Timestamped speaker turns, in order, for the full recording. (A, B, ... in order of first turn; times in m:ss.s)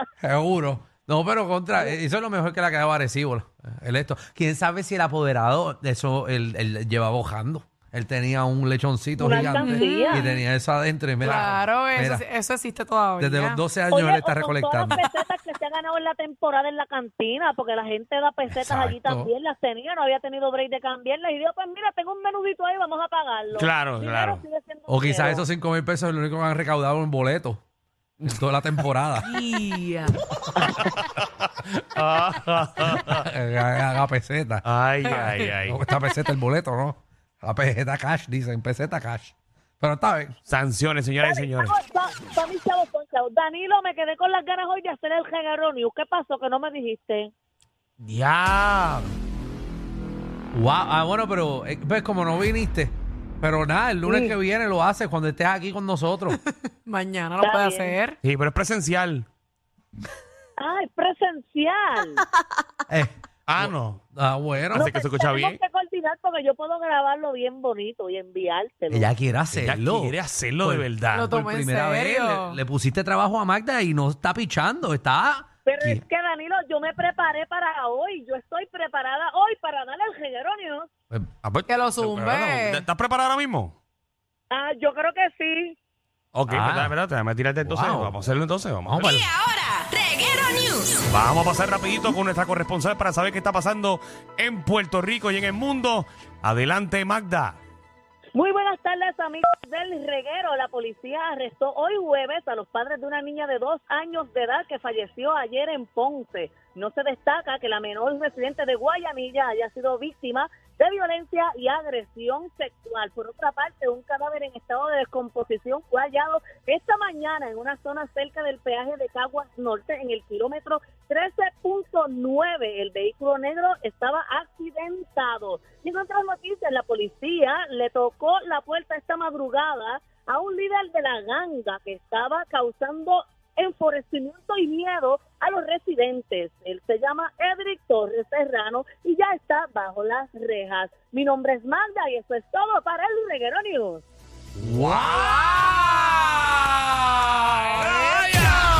0:00.2-0:12.2 A
0:09.2-0:10.2 B
0:09.6-0:10.4 C
0:11.3-0:13.6 C
0:13.2-0:15.0 A
0:13.9-0:25.5 B
0:18.5-0:19.3 A
0:23.6-0:24.4 D
0:24.9-0:27.6 A
0:28.2-0:29.4 A
0:29.3-0:30.2 C
0:30.6-0:33.3 D
0:33.0-0:40.4 A
0:34.6-0:35.8 D
0:40.5-0:41.8 D
0:41.2-0:47.3 B
0:48.0-0:49.1 D
0:50.5-0:56.4 A
0:54.1-0:54.4 B
0:56.9-0:58.2 C
0:57.4-0:58.0 B
0:58.2-0:59.3 D
1:00.6-1:02.2 B
1:02.9-1:04.9 A
1:03.5-1:04.0 D
1:04.7-1:05.6 D
1:04.7-1:09.1 B
1:08.9-1:16.0 A
1:09.5-1:11.3 D
1:11.1-1:12.6 C
1:15.6-1:20.9 B
1:21.4-1:23.8 D
1:21.7-1:22.8 C
1:24.5-1:25.8 B
1:26.3-1:29.2 D
1:26.5-1:27.0 A
1:27.6-1:28.2 A
1:28.8-1:29.4 A
1:29.1-1:31.0 E
1:31.1-1:37.6 D
1:38.3-2:24.1 B
2:24.6-2:27.3 A
2:24.8-2:25.0 D